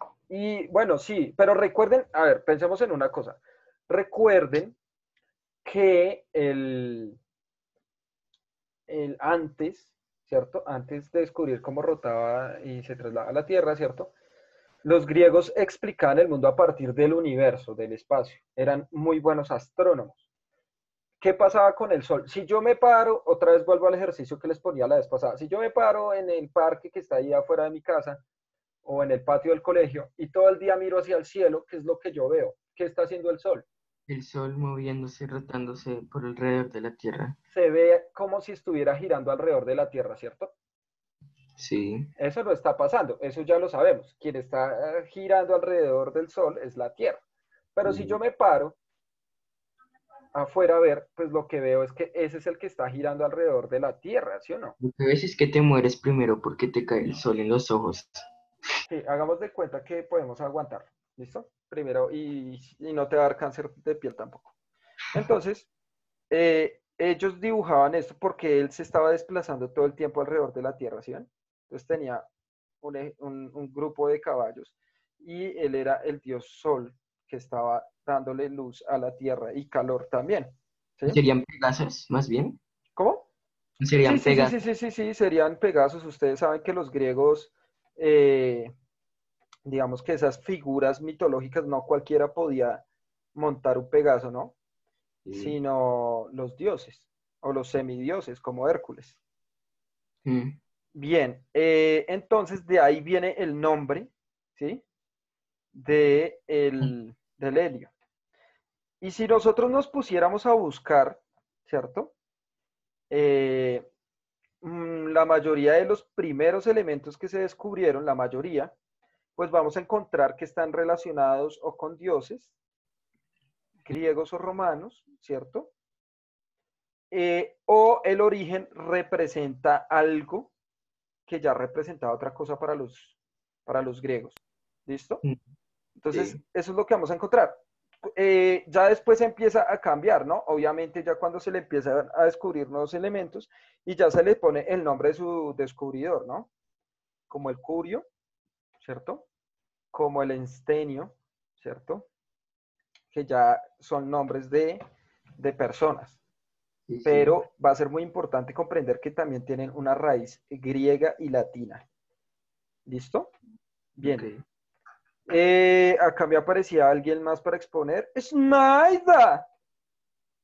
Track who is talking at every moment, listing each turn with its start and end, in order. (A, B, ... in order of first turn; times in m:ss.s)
0:00.3-0:04.8 A
0:05.6-0:07.2 A
0:08.9-0:14.1 A
0:14.8-0:20.2 A
0:21.2-0:28.2 A
0:28.8-0:33.7 A
0:34.1-0:37.4 B
0:37.5-0:40.5 A
0:41.6-0:42.1 B
0:42.2-0:47.2 A
0:47.8-0:48.8 A
0:47.8-0:48.2 B
0:50.3-0:54.8 A
0:54.8-0:58.2 B
0:58.9-1:04.5 A
1:05.1-1:05.7 A
1:06.3-1:12.3 A
1:12.8-1:21.2 A
1:21.1-1:22.6 B
1:23.0-1:23.3 A
1:23.8-1:24.6 B
1:24.0-1:28.7 A
1:29.6-1:32.8 A
1:33.4-1:34.6 A
1:35.3-1:35.6 B
1:35.3-1:39.2 A
1:40.2-1:40.6 B
1:40.9-1:44.8 A
1:45.7-1:47.9 A
1:49.0-1:52.1 A
1:53.1-1:53.9 A
1:54.6-1:58.7 A
1:59.4-2:02.5 A
2:03.8-2:05.7 A
2:07.1-2:10.5 A
2:11.3-2:15.2 A
2:16.0-2:26.5 A
2:16.1-2:16.4 B
2:27.3-2:28.1 A
2:28.8-2:29.2 A
2:29.9-2:32.1 A
2:33.1-2:34.8 A
2:35.4-2:36.2 A
2:36.9-2:37.4 B
2:37.0-2:41.8 A
2:42.9-2:43.3 A
2:44.0-2:44.3 A
2:44.0-2:44.4 B
2:45.3-2:49.5 A